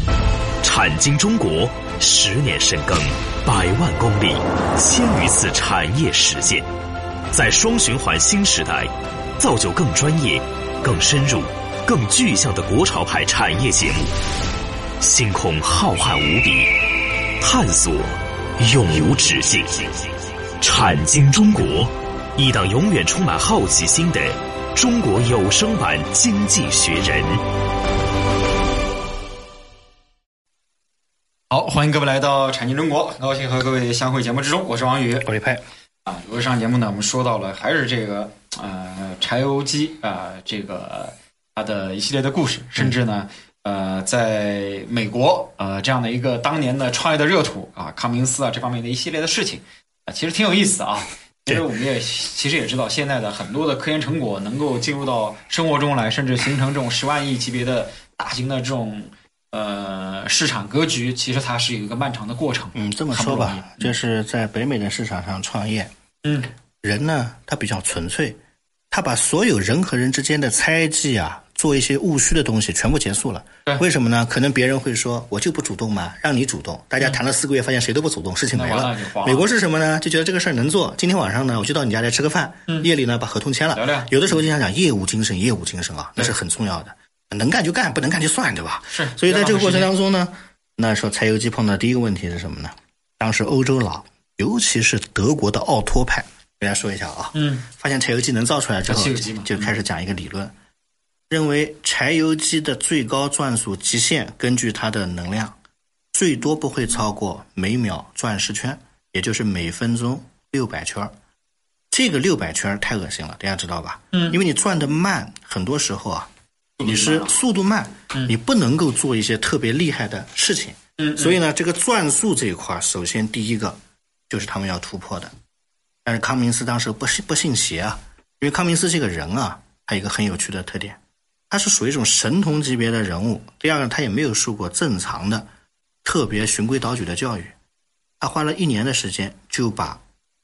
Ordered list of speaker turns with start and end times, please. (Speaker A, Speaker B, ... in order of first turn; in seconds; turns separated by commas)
Speaker A: 0.6-6.7, Speaker A: 7.3-14.1, Speaker A: 15.0-16.7, Speaker A: 17.4-19.9, Speaker A: 20.6-27.4, Speaker B: 31.5-35.3, Speaker C: 35.2-35.6, Speaker B: 36.0-63.9, Speaker C: 62.7-65.9, Speaker B: 66.2-66.5, Speaker C: 66.8-68.4, Speaker C: 68.9-100.5, Speaker B: 78.5-79.5, Speaker B: 83.7-84.4, Speaker B: 88.9-89.9, Speaker B: 97.3-97.7, Speaker B: 98.8-99.7, Speaker C: 101.3-105.5, Speaker C: 106.1-111.1, Speaker C: 111.9-116.3, Speaker B: 114.1-114.4, Speaker B: 116.8-117.3, Speaker C: 116.8-123.8, Speaker B: 121.0-121.4, Speaker C: 124.3-125.3, Speaker C: 126.0-131.0, Speaker C: 131.5-135.5, Speaker C: 136.0-137.5, Speaker C: 138.2-140.0